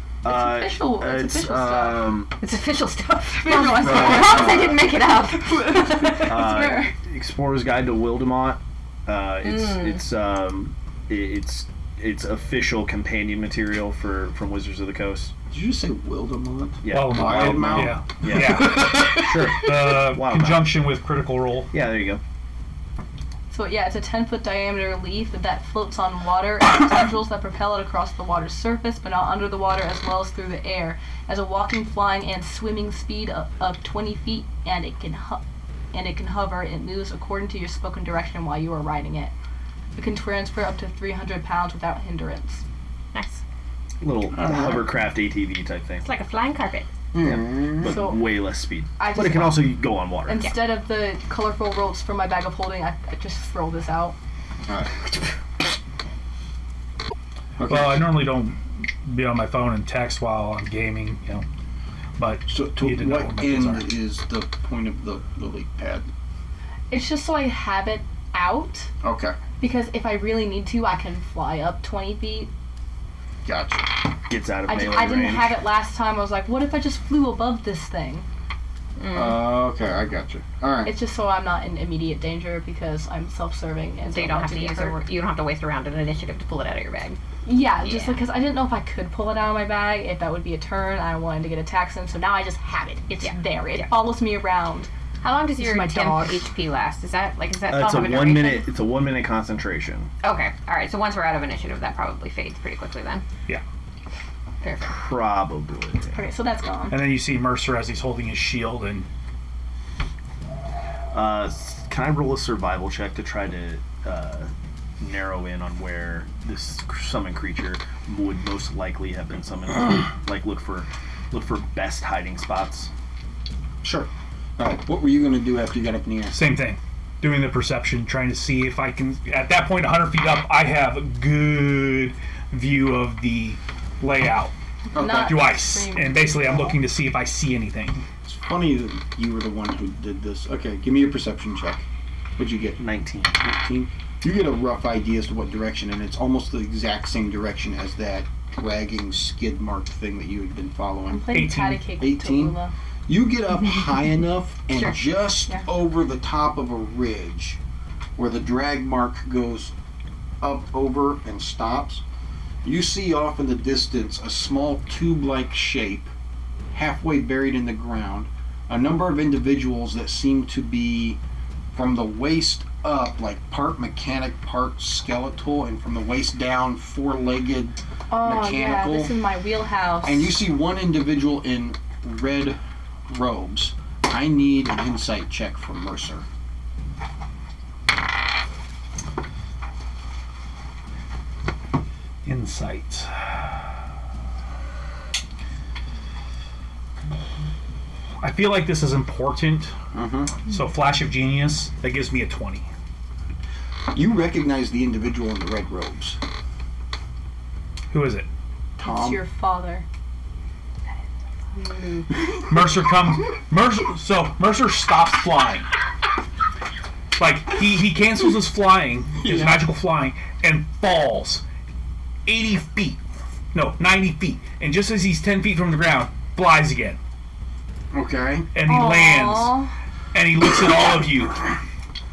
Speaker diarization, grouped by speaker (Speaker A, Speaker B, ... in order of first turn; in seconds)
Speaker A: 0.2-2.3, 3.8-4.8, 5.9-15.3, 16.8-20.8, 21.7-22.2, 44.0-46.0, 47.2-50.5, 74.3-75.6, 97.7-100.1, 104.8-106.2, 111.1-122.9, 142.8-143.4
Speaker B: 0.2-2.2, 3.3-7.0, 23.5-39.3, 40.0-42.6, 47.9-54.1, 66.9-68.9, 69.6-72.5, 74.7-78.2, 80.8-85.0, 87.5-94.9, 95.6-96.4, 106.1-107.0, 134.9-136.8, 151.1-152.7, 178.1-180.4, 208.8-209.8, 211.8-212.0, 228.6-229.7
Speaker C: 2.4-6.2, 9.4-10.0, 43.1-43.4, 46.0-46.9, 79.0-79.5, 84.1-87.2, 87.8-88.2, 93.2-94.0, 95.2-98.7, 100.2-103.2, 104.6-105.0
Speaker D: 15.5-19.5, 44.4-44.9, 47.1-48.0, 54.6-55.0, 57.6-58.2, 62.5-66.1, 69.0-69.4, 73.5-73.9, 79.1-80.9, 123.8-126.4, 134.9-135.4, 138.2-141.8, 142.4-142.8, 143.3-157.6, 158.2-159.7, 160.4-162.0, 162.6-166.1, 166.7-171.2, 171.7-179.1, 180.0-182.6, 183.1-186.2, 199.9-200.4, 203.9-206.2, 208.8-209.2, 219.3-219.6, 227.9-228.5
Speaker E: 16.9-21.7, 57.6-61.5, 62.2-63.9, 106.9-109.1, 126.3-134.5, 135.1-138.0, 151.3-151.9, 192.2-193.3, 198.2-199.7, 200.5-202.7, 207.9-208.3, 212.4-215.7, 217.2-221.4, 222.2-223.0, 223.5-227.0, 228.5-229.6, 230.1-231.6